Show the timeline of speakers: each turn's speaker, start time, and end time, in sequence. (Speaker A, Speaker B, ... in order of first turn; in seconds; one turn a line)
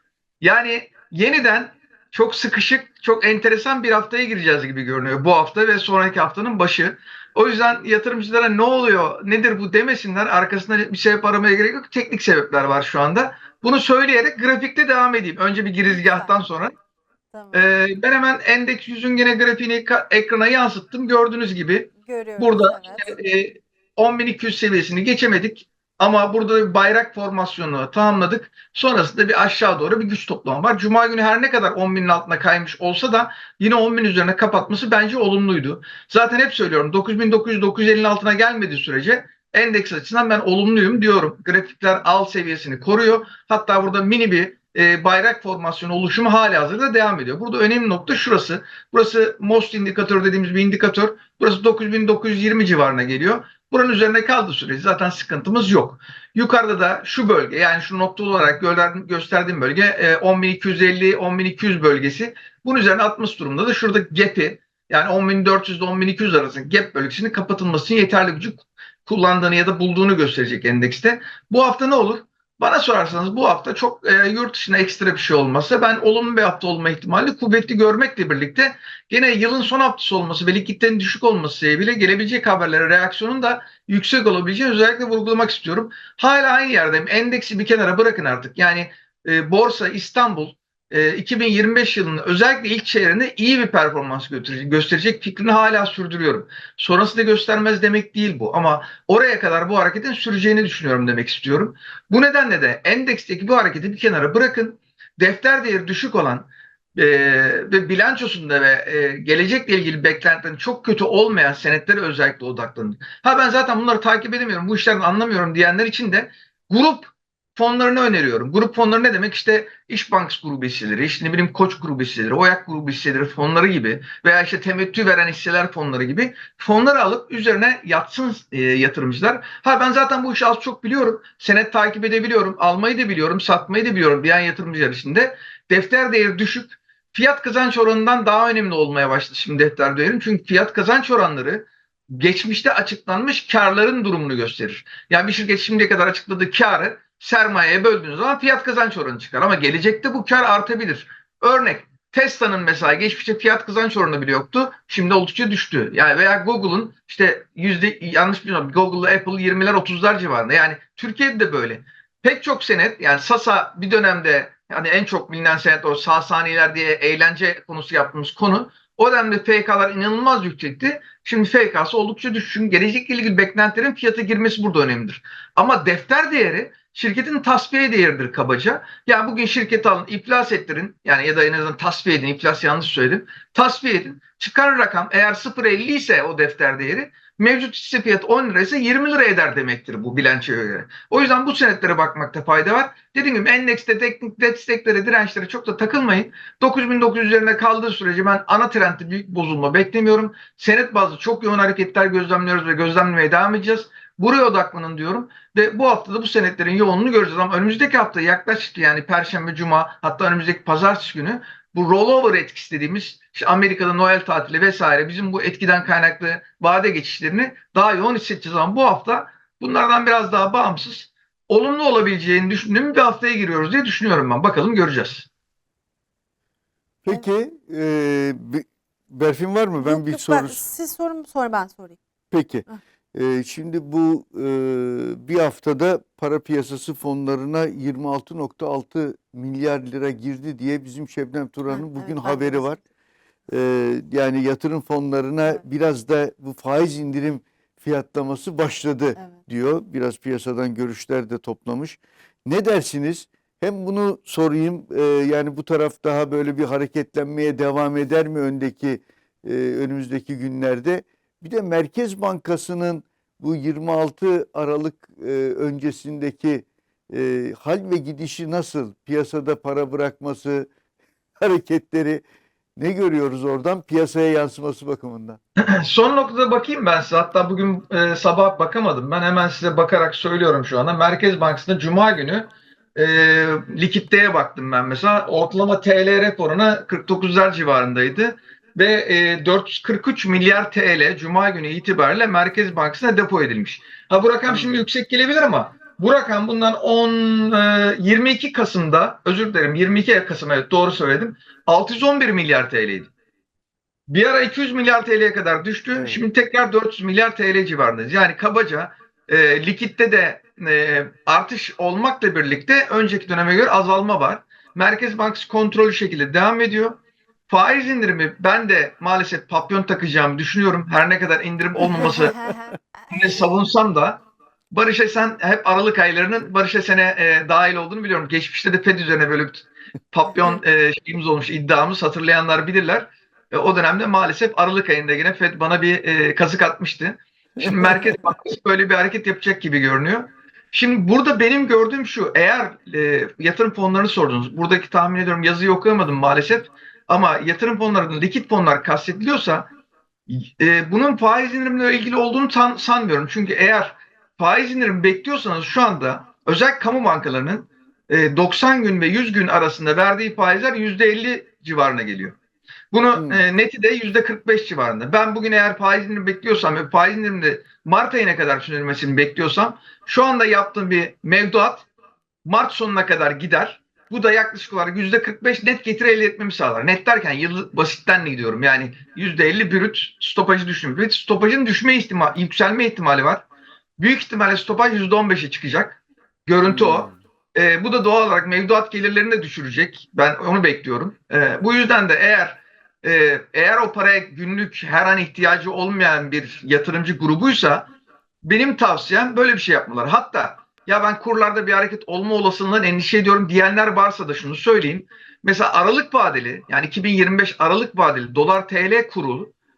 Speaker A: 0.4-16.8
Speaker B: 15.9-16.3
Speaker B: 17.3-17.8
Speaker A: 17.5-225.3
Speaker B: 22.0-23.2
Speaker C: 227.1-230.6
Speaker B: 229.8-232.0
Speaker C: 232.3-242.8
Speaker B: 241.7-242.7
Speaker C: 243.5-270.7
Speaker B: 249.2-249.4
Speaker C: 271.4-272.2
Speaker C: 272.8-275.4
Speaker A: 275.6-303.1
Speaker A: 304.1-322.5
Speaker C: 305.9-306.2
Speaker C: 321.9-322.7
Speaker B: 322.4-322.7
Speaker A: 323.1-349.7
Speaker A: 350.3-362.4
Speaker A: 362.9-371.9
Speaker C: 363.2-363.4
Speaker A: 372.4-383.5
Speaker A: 384.0-397.9
Speaker C: 386.6-387.2
Speaker A: 398.4-409.5